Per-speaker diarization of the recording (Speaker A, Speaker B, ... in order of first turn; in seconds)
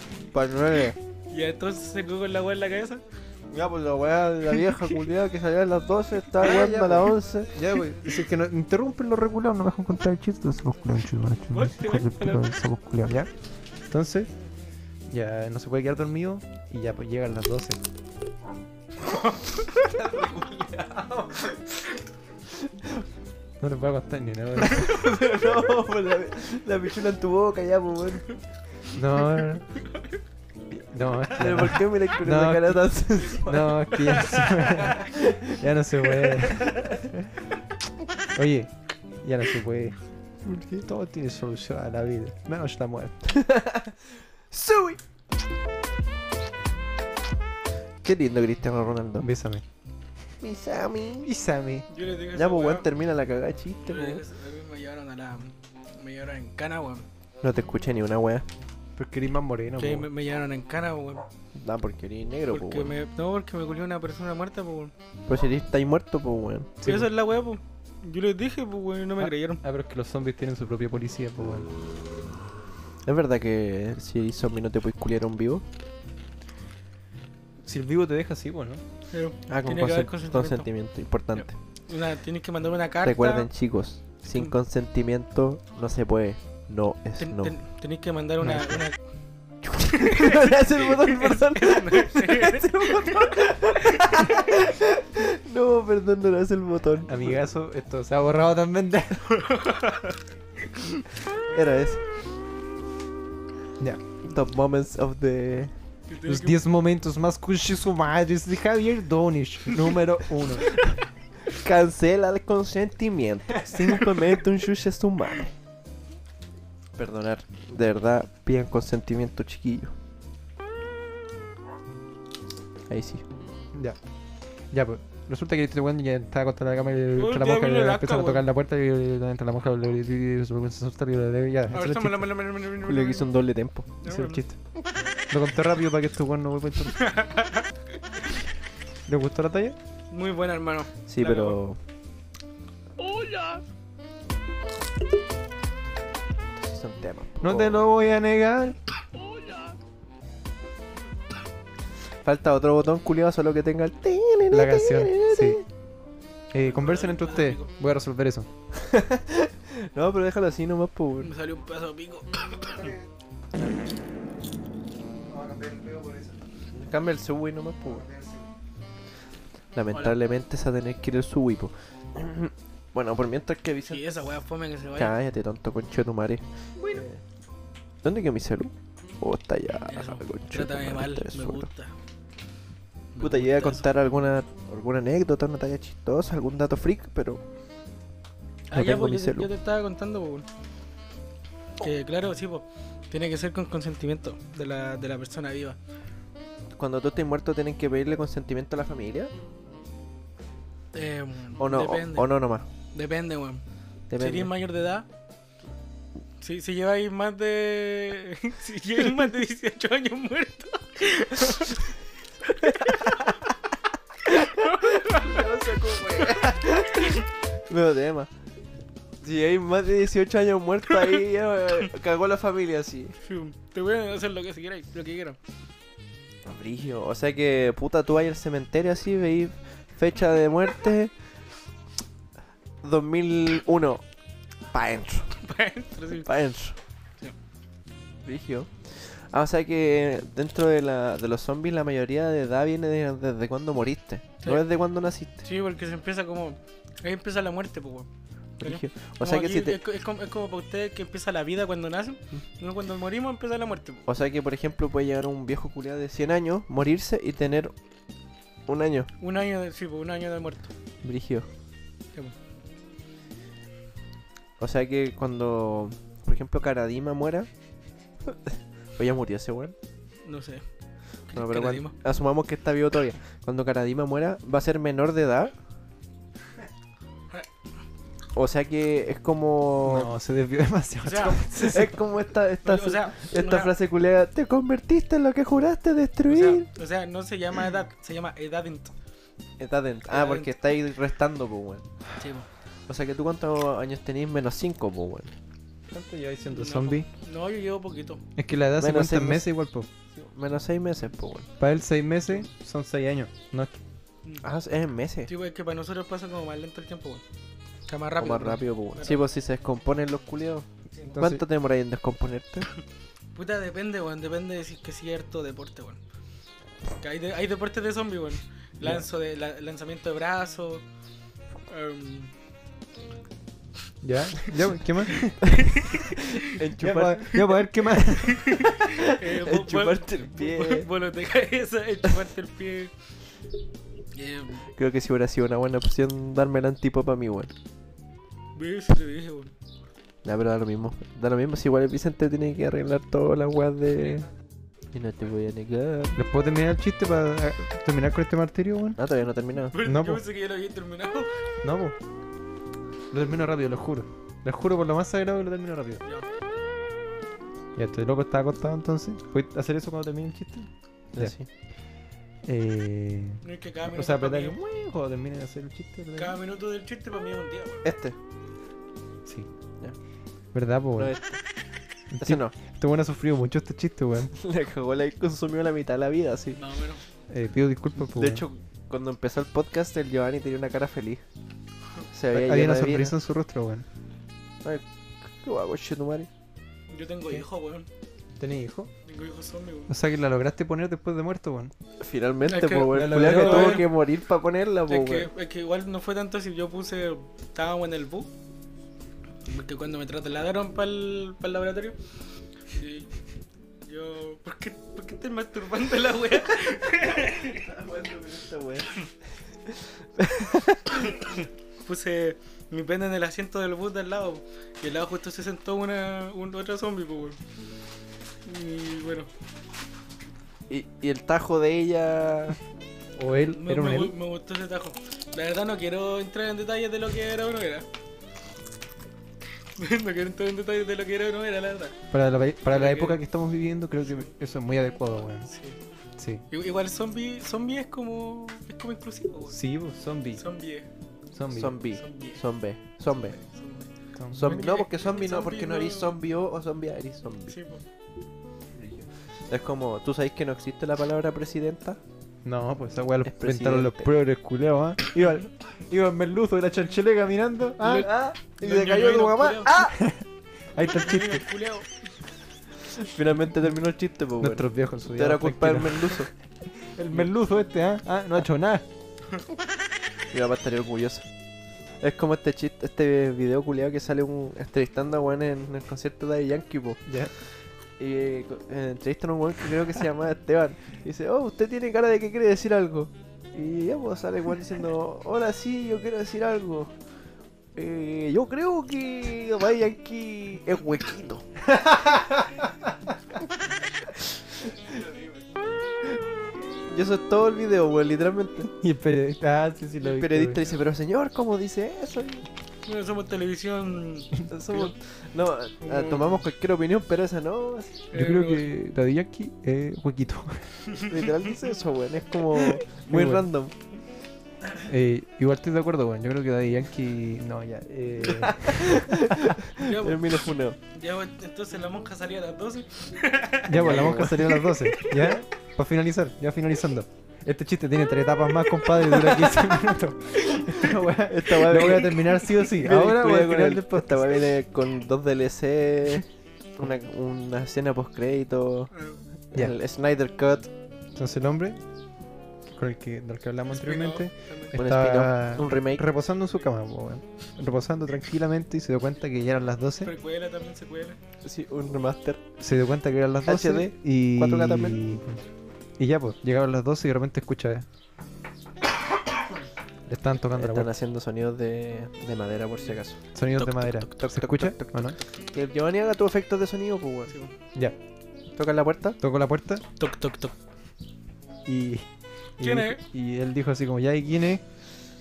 Speaker A: 0.3-1.0, 3.5-7.5, 19.7-21.6, 22.6-23.0, 24.7-28.4, 31.4-33.9, 34.9-35.6, 40.4-40.9, 43.3-44.0, 44.5-45.0, 48.0-49.3, 50.4-51.3, 52.3-54.2, 57.4-58.5, 61.5-62.9, 65.3-66.9, 73.1-75.6, 79.5-81.5, 83.0-87.5, 89.6-97.4, 101.5-102.0, 104.2-105.7, 111.5-115.5, 117.0-119.9, 122.9-123.2, 132.8-133.9, 141.1-141.8, 146.6-147.9, 152.2-155.6, 158.8-161.3, 166.7-168.1, 169.8-174.3, 174.9-177.2, 178.0-181.7, 183.2-187.4, 188.7-189.5, 196.8-199.3, 201.6-202.7, 204.1-204.5, 214.6-218.3, 219.2-223.2, 226.4-231.1, 232.8-234.0, 234.7-235.3, 236.1-236.8, 238.2-245.4, 248.6-249.8, 254.1-257.7, 258.7-259.1, 261.0-261.5, 264.6-267.5, 268.2-269.8, 271.3-275.5, 278.3-280.1, 281.6-286.7, 289.6-291.9, 292.9-295.3, 298.8-299.5, 300.1-301.5, 304.4-305.3, 308.2-312.7, 326.1-327.6, 328.7-330.9, 334.8-337.5, 340.2-344.3, 344.9-346.2, 349.0-349.8, 361.1-361.5, 367.8-368.1, 371.0-371.4, 372.2-372.6, 374.4-376.6, 378.0-381.2, 382.1-383.1, 384.6-386.3, 392.0-395.3, 407.1-409.1, 409.6-411.1, 420.7-422.6, 441.5-443.4, 444.3-447.6, 448.8-452.0, 453.2-454.1, 458.0-460.0, 462.9-466.3, 470.3-471.2, 472.0-477.1, 478.0-486.9, 487.8-491.5, 494.7-495.0, 496.9-498.7, 500.0-502.4, 504.5-508.1, 511.0-513.7, 518.2-520.8, 523.8-524.6, 530.5-538.9, 539.5-540.7, 544.8-546.1, 551.4-552.4, 553.5-555.0, 560.6-563.2, 564.2-567.3, 568.6-569.2
Speaker B: 1.3-3.0, 11.5-12.6, 51.9-52.9, 53.8-57.1, 59.8-61.2, 62.5-64.9, 66.8-69.6, 79.1-80.7, 81.3-83.5, 87.2-89.0, 89.8-94.5, 99.3-100.2, 106.1-106.6, 127.2-128.4, 131.7-133.3, 134.0-134.4, 137.0-137.7, 140.1-141.6, 143.0-143.6, 149.3-149.7, 156.6-157.7, 161.2-162.9, 173.9-175.1, 179.9-181.9, 183.1-183.9, 188.7-190.5, 191.8-195.8, 200.9-202.3, 202.9-203.6, 204.2-205.1, 206.4-211.9, 212.6-213.2, 214.3-215.4, 223.2-225.4, 235.4-236.3, 245.4-248.1, 248.6-254.1, 259.2-260.7, 270.2-270.6, 271.3-272.0, 281.0-281.7, 282.6-283.7, 286.3-288.9, 290.1-290.5, 292.2-292.5, 296.5-298.2, 305.3-307.2, 307.9-309.2, 313.4-316.0, 317.0-320.8, 321.7-322.3, 325.6-326.1, 328.3-332.9, 334.1-334.6, 338.6-339.5, 349.7-351.3, 363.4-364.6, 366.1-367.9, 376.6-377.0, 386.9-387.9, 389.1-389.9, 392.5-393.9, 394.9-398.3, 399.5-402.0, 402.7-403.1, 403.8-407.6, 411.8-417.4, 418.4-419.3, 423.4-427.9, 429.8-432.0, 432.7-433.2, 435.5-435.8, 436.5-439.6, 440.4-440.9, 441.9-442.4, 443.1-443.9, 444.4-446.1, 447.5-447.8, 457.8-459.8, 460.8-462.0, 502.9-504.9, 505.8-506.4, 508.1-508.7, 519.8-525.3, 538.9-539.2, 543.7-544.8, 550.0-551.2, 563.6-564.1, 570.0-570.5, 572.6-573.0
Speaker C: 6.4-13.3, 13.9-14.3, 15.1-17.8, 23.6-24.9, 28.9-29.7, 30.7-37.2, 38.4-40.0, 40.8-43.2, 49.2-49.6, 51.2-51.9, 59.0-60.1, 66.8-67.1, 69.2-71.7, 77.6-78.8, 88.4-88.8, 97.1-99.3, 106.3-110.7, 124.7-132.3, 134.1-134.6, 135.3-137.1, 139.1-139.8, 147.4-148.8, 154.5-155.6, 156.5-158.5, 162.8-163.0, 165.3-166.4, 167.9-168.5, 279.8-281.9, 295.9-297.1, 298.4-299.9, 301.6-303.8, 311.1-311.4, 324.0-325.5, 326.8-328.6, 346.1-349.0, 349.8-350.2, 351.6-352.0, 353.1-356.0, 357.8-361.4, 362.4-366.4, 370.5-371.1, 372.1-374.3, 377.3-378.4, 382.3-383.9, 388.4-388.9, 389.9-391.7, 392.9-393.9, 423.1-424.1, 432.1-435.5, 436.2-436.4, 439.5-440.4, 441.3-441.8, 444.1-444.6, 452.4-458.1, 458.7-461.5, 464.4-468.9, 477.1-477.3, 491.7-492.6, 498.7-500.7, 508.1-510.8, 513.1-513.5, 514.8-519.5, 523.6-534.4, 541.1-541.8, 542.7-550.1, 552.6-555.4, 556.0-557.9, 560.1-560.9, 563.3-565.2, 569.2-569.8, 571.6-574.6